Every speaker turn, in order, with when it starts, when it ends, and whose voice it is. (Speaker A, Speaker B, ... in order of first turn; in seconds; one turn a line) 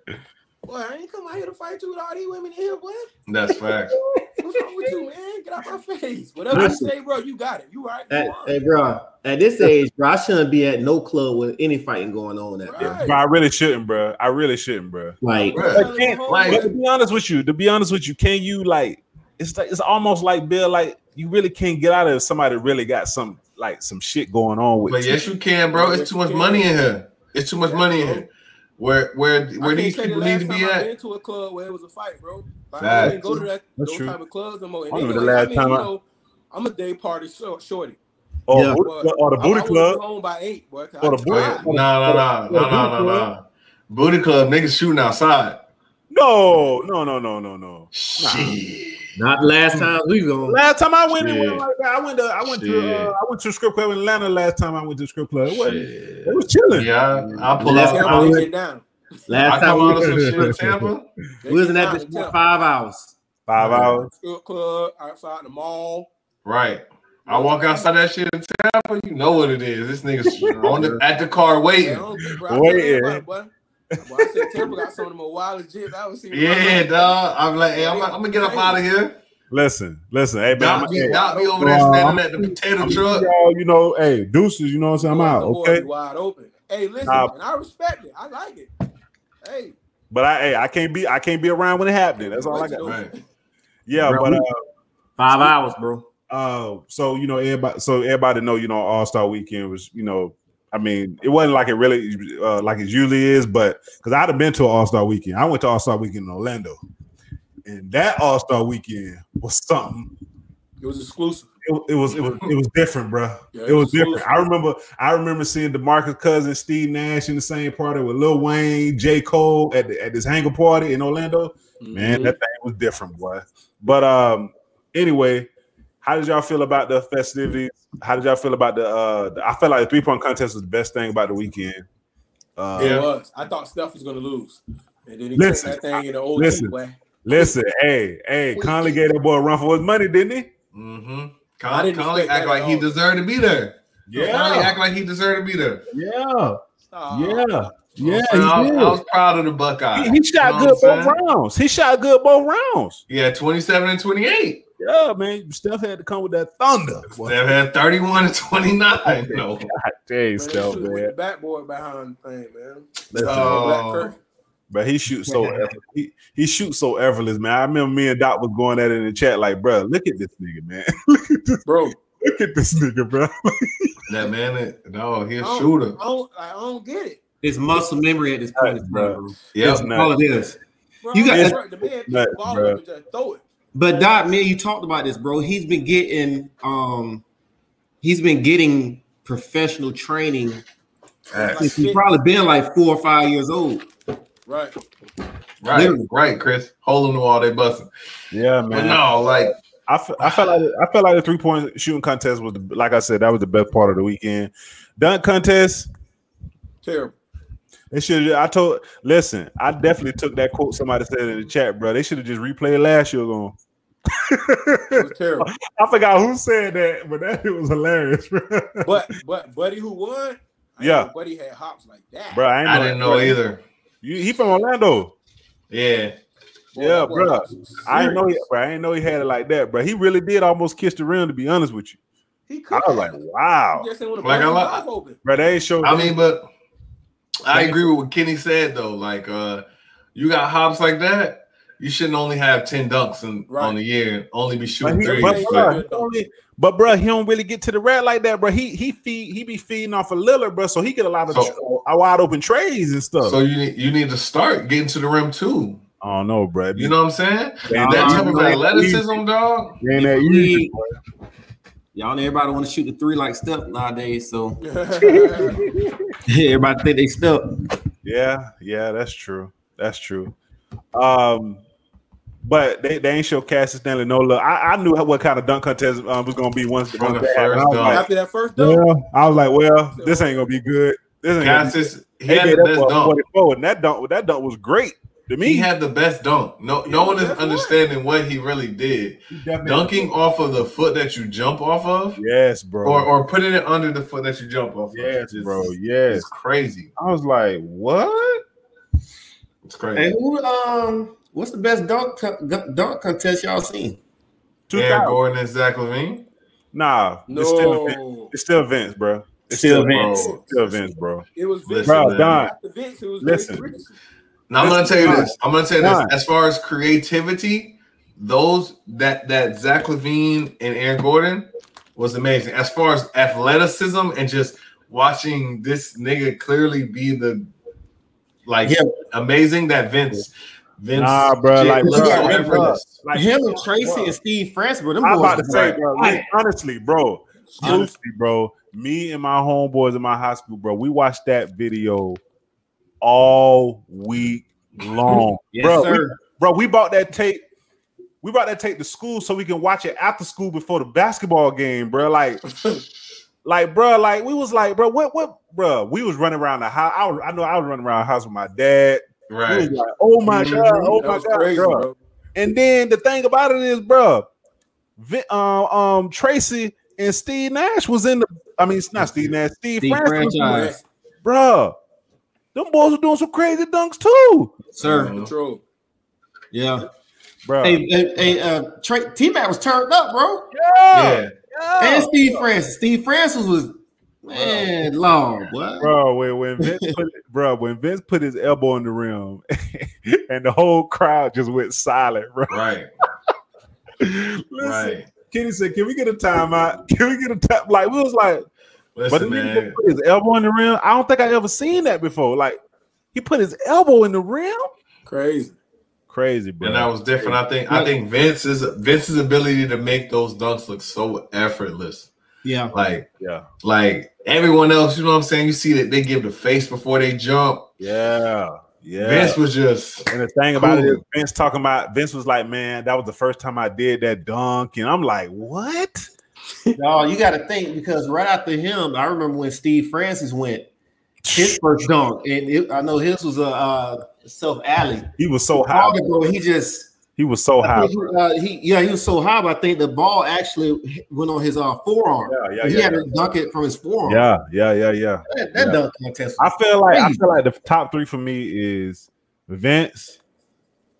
Speaker A: 0.7-3.1
Speaker B: 3.3-3.9
Speaker C: 3.9-4.5
Speaker A: 4.4-8.5
Speaker C: 6.5-6.9
Speaker D: 6.5-6.9
Speaker D: 8.1-12.8
Speaker A: 12.6-13.2
Speaker C: 12.8-15.2
Speaker D: 15.2-15.6
Speaker A: 15.5-16.7
Speaker B: 15.5-16.6
Speaker C: 15.7-25.2
Speaker B: 24.9-30.9
Speaker A: 25.7-26.7
Speaker A: 27.7-28.2
Speaker A: 29.6-38.0
Speaker B: 32.8-33.4
Speaker D: 33.1-33.4
Speaker C: 33.1-34.1
Speaker C: 34.9-35.9
Speaker C: 38.5-40.0
Speaker D: 38.5-38.8
Speaker A: 38.8-41.6
Speaker C: 41.0-43.3
Speaker B: 41.3-45.6
Speaker C: 46.1-48.6
Speaker B: 47.9-49.1
Speaker D: 49.2-50.6
Speaker C: 50.5-56.9
Speaker B: 51.2-51.6
Speaker B: 52.4-53.1
Speaker B: 55.5-58.4
Speaker D: 57.1-58.5
Speaker A: 57.8-58.8
Speaker D: 59.3-60.6
Speaker B: 59.4-61.1
Speaker C: 59.9-60.9
Speaker A: 61.4-62.3
Speaker D: 61.5-63.1
Speaker C: 63.5-64.1
Speaker B: 63.5-64.0
Speaker A: 64.2-66.1
Speaker B: 66.4-72.0
Speaker A: 67.3-67.8
Speaker C: 70.2-71.0
Speaker A: 71.8-77.2
Speaker C: 72.4-73.2
Speaker C: 73.9-74.9
Speaker B: 76.3-79.2
Speaker A: 77.7-78.8
Speaker C: 79.5-85.8
Speaker B: 80.5-83.3
Speaker A: 80.7-81.5
Speaker A: 85.0-88.7
Speaker C: 87.0-87.3
Speaker A: 89.4-89.7
Speaker C: 90.1-93.0
Speaker A: 92.2-93.2
Speaker B: 92.8-93.1
Speaker C: 93.9-94.6
Speaker D: 94.0-94.4
Speaker D: 95.2-96.0
Speaker C: 95.3-95.5
Speaker C: 96.3-106.8
Speaker C: 107.6-110.1
Speaker A: 110.8-111.5
Speaker C: 111.6-125.5
Speaker A: 113.5-114.3
Speaker A: 121.8-122.4
Speaker C: 126.0-131.8
Speaker C: 132.6-133.0
Speaker A: 132.8-137.5
Speaker B: 132.8-133.1
Speaker C: 135.3-136.7
Speaker C: 137.2-140.5
Speaker B: 140.7-145.8
Speaker A: 141.7-142.9
Speaker C: 144.1-144.8
Speaker C: 145.9-146.6
Speaker A: 146.9-147.7
Speaker C: 147.1-149.0
Speaker B: 148.0-151.2
Speaker C: 149.9-153.0
Speaker B: 153.1-154.6
Speaker C: 154.8-157.6
Speaker B: 157.1-159.7
Speaker C: 159.0-161.1
Speaker A: 160.3-164.2
Speaker C: 163.1-163.6
Speaker B: 163.2-164.1
Speaker C: 164.7-171.6
Speaker D: 165.2-165.7
Speaker A: 171.6-171.9
Speaker C: 172.2-174.0
Speaker B: 174.1-176.0
Speaker A: 175.4-177.2
Speaker D: 177.4-180.6
Speaker C: 178.6-180.2
Speaker B: 179.5-179.9
Speaker A: 181.0-183.4
Speaker D: 181.1-181.6
Speaker C: 181.3-182.8
Speaker D: 183.7-187.2
Speaker D: 188.0-190.6
Speaker A: 191.3-192.0
Speaker B: 191.3-191.8
Speaker D: 191.5-193.9
Speaker A: 194.4-194.7
Speaker B: 195.6-197.9
Speaker D: 195.7-196.0
Speaker C: 198.3-205.9
Speaker B: 198.7-199.5
Speaker B: 200.2-200.5
Speaker A: 206.8-207.2
Speaker C: 207.9-213.5
Speaker C: 214.1-218.9
Speaker A: 214.9-215.5
Speaker A: 218.8-222.4
Speaker C: 220.8-221.1
Speaker C: 222.3-223.4
Speaker B: 222.6-223.6
Speaker C: 224.0-225.1
Speaker B: 225.7-226.1
Speaker A: 226.7-227.8
Speaker C: 226.8-232.0
Speaker A: 232.5-233.2
Speaker C: 232.7-233.9
Speaker A: 233.7-235.2
Speaker B: 234.2-234.8
Speaker C: 235.2-236.2
Speaker B: 235.8-236.5
Speaker B: 237.4-239.6
Speaker C: 237.5-237.9
Speaker B: 240.1-245.7
Speaker A: 243.5-243.8
Speaker C: 244.8-253.4
Speaker A: 245.0-246.1
Speaker B: 253.2-255.8
Speaker C: 256.0-256.9
Speaker B: 256.8-259.8
Speaker C: 257.7-259.2
Speaker D: 257.7-258.9
Speaker C: 259.8-260.9
Speaker D: 259.9-260.7
Speaker D: 261.9-264.6
Speaker A: 264.6-265.6
Speaker C: 265.0-266.1
Speaker D: 266.2-267.6
Speaker C: 268.0-270.3
Speaker C: 270.9-271.6
Speaker C: 272.4-285.7
Speaker B: 276.9-278.1
Speaker A: 277.8-278.8
Speaker A: 279.9-280.5
Speaker B: 281.4-283.2
Speaker B: 285.4-292.2
Speaker A: 286.9-287.8
Speaker C: 289.3-290.1
Speaker C: 292.2-293.1
Speaker B: 292.8-296.9
Speaker C: 294.9-296.3
Speaker C: 297.0-298.4
Speaker B: 299.6-300.1
Speaker D: 299.9-304.0
Speaker C: 304.7-305.2
Speaker B: 304.7-306.2
Speaker C: 306.7-311.2
Speaker A: 307.3-308.3
Speaker D: 309.5-310.4
Speaker B: 309.8-310.8
Speaker A: 311.3-313.9
Speaker B: 311.7-312.5
Speaker C: 311.9-312.5
Speaker C: 313.2-313.7
Speaker B: 314.5-327.5
Speaker C: 314.6-316.1
Speaker B: 328.4-332.9
Speaker D: 328.6-328.9
Speaker C: 330.9-334.2
Speaker D: 331.8-336.2
Speaker C: 335.0-342.2
Speaker B: 335.5-335.8
Speaker A: 337.6-337.9
Speaker D: 337.6-337.9
Speaker C: 343.0-347.4
Speaker D: 345.5-346.2
Speaker C: 348.2-352.4
Speaker A: 352.5-352.8
Speaker C: 353.4-364.3
Speaker B: 359.3-359.7
Speaker D: 360.2-361.0
Speaker A: 361.0-361.9
Speaker C: 365.0-370.7
Speaker D: 369.0-369.3
Speaker D: 369.8-370.7
Speaker A: 370.4-370.8
Speaker C: 371.2-371.7
Speaker C: 372.5-374.6
Speaker D: 374.8-375.1
Speaker B: 374.8-375.3
Speaker A: 375.1-375.6
Speaker D: 376.5-376.9
Speaker C: 377.4-377.8
Speaker D: 377.6-380.5
Speaker C: 380.5-382.4
Speaker B: 380.9-381.3
Speaker D: 381.8-385.9
Speaker C: 384.3-384.7
Speaker C: 385.8-392.6
Speaker D: 386.6-386.9
Speaker B: 392.5-392.9
Speaker C: 394.0-398.4
Speaker B: 394.6-395.1
Speaker B: 398.9-399.8
Speaker C: 399.1-402.6
Speaker C: 403.1-404.7
Speaker A: 405.1-405.6
Speaker C: 406.1-406.9
Speaker B: 406.6-412.1
Speaker D: 407.2-407.9
Speaker D: 412.4-412.7
Speaker B: 412.7-413.1
Speaker C: 413.2-413.4
Speaker B: 413.6-417.7
Speaker C: 417.8-419.4
Speaker B: 419.0-421.0
Speaker C: 420.1-426.1
Speaker D: 426.8-430.7
Speaker C: 431.2-431.6
Speaker D: 431.3-436.9
Speaker C: 435.2-436.0
Speaker C: 437.2-438.1
Speaker D: 437.6-444.2
Speaker C: 442.3-443.1
Speaker C: 444.1-445.8
Speaker D: 445.3-447.2
Speaker C: 446.4-450.2